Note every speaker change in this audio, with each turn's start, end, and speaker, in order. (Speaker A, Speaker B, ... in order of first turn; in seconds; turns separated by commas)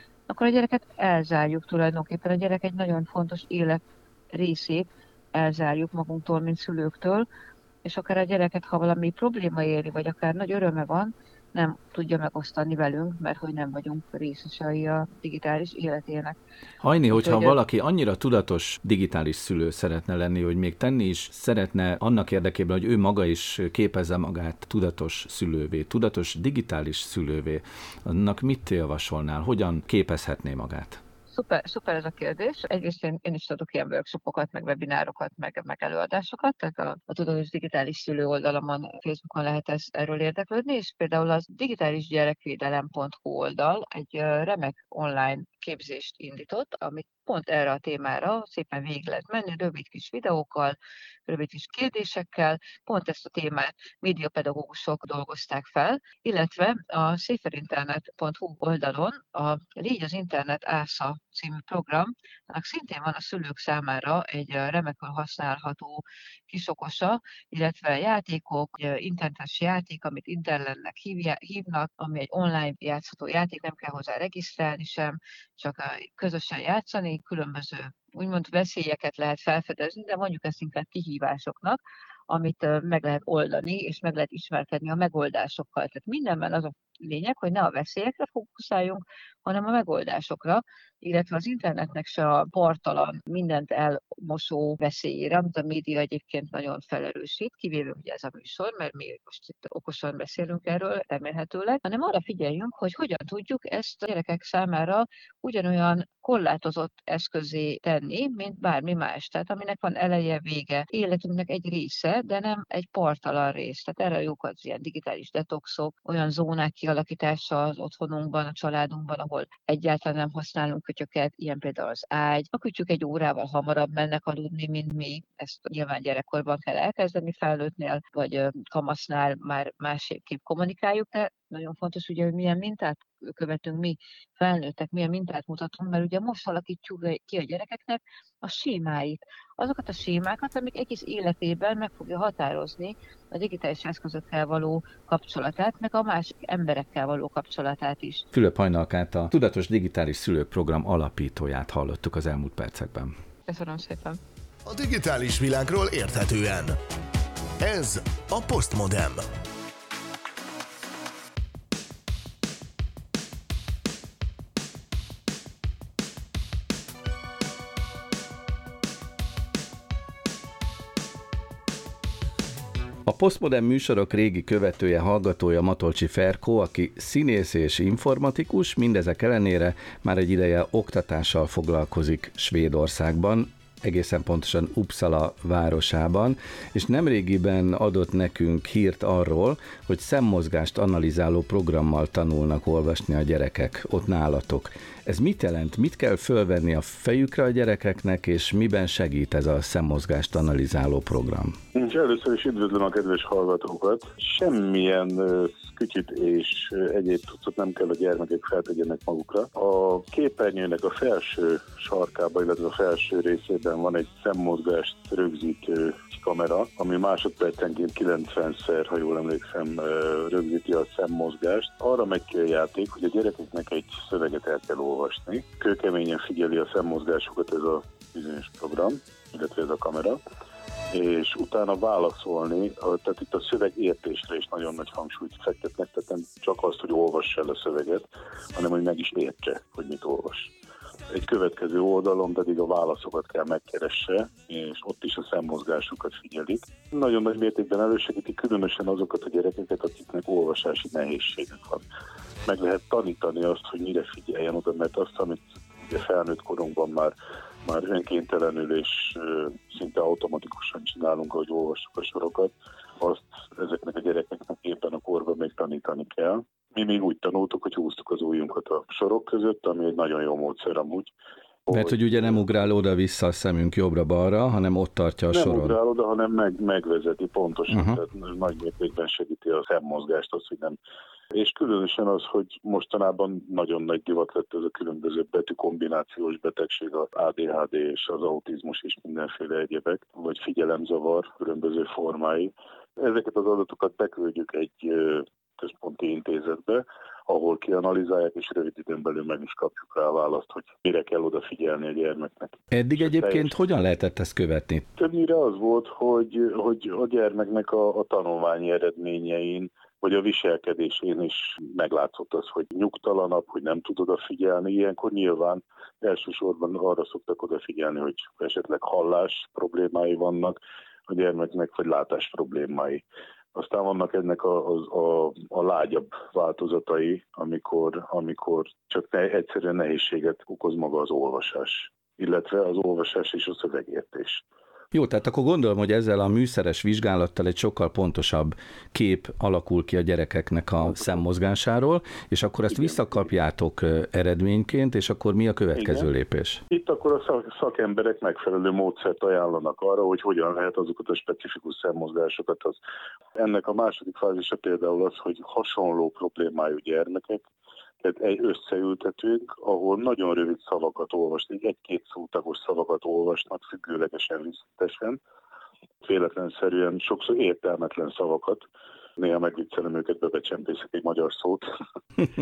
Speaker A: 0.3-3.8, Speaker A: 4.3-7.3, Speaker A: 7.8-16.4, Speaker B: 16.8-31.0, Speaker A: 17.1-17.6, Speaker A: 31.3-50.8, Speaker A: 51.3-148.2, Speaker B: 148.3-153.1, Speaker A: 153.5-154.2, Speaker C: 154.7-156.7, Speaker C: 157.6-159.2, Speaker B: 173.1-201.5, Speaker D: 201.7-230.2, Speaker D: 230.9-240.5, Speaker D: 241.1-251.8, Speaker D: 252.4-271.1, Speaker D: 271.7-272.5, Speaker B: 271.7-275.8, Speaker D: 275.3-280.8, Speaker B: 277.7-278.0, Speaker D: 281.3-303.6, Speaker B: 302.7-304.9, Speaker D: 305.0-320.6, Speaker D: 321.1-323.0, Speaker D: 323.5-334.4, Speaker B: 334.9-346.6, Speaker D: 340.8-341.2, Speaker D: 342.7-343.3, Speaker D: 345.7-346.1, Speaker D: 346.7-352.8, Speaker D: 353.4-357.4, Speaker D: 358.0-365.2, Speaker D: 366.0-368.6, Speaker D: 369.2-371.6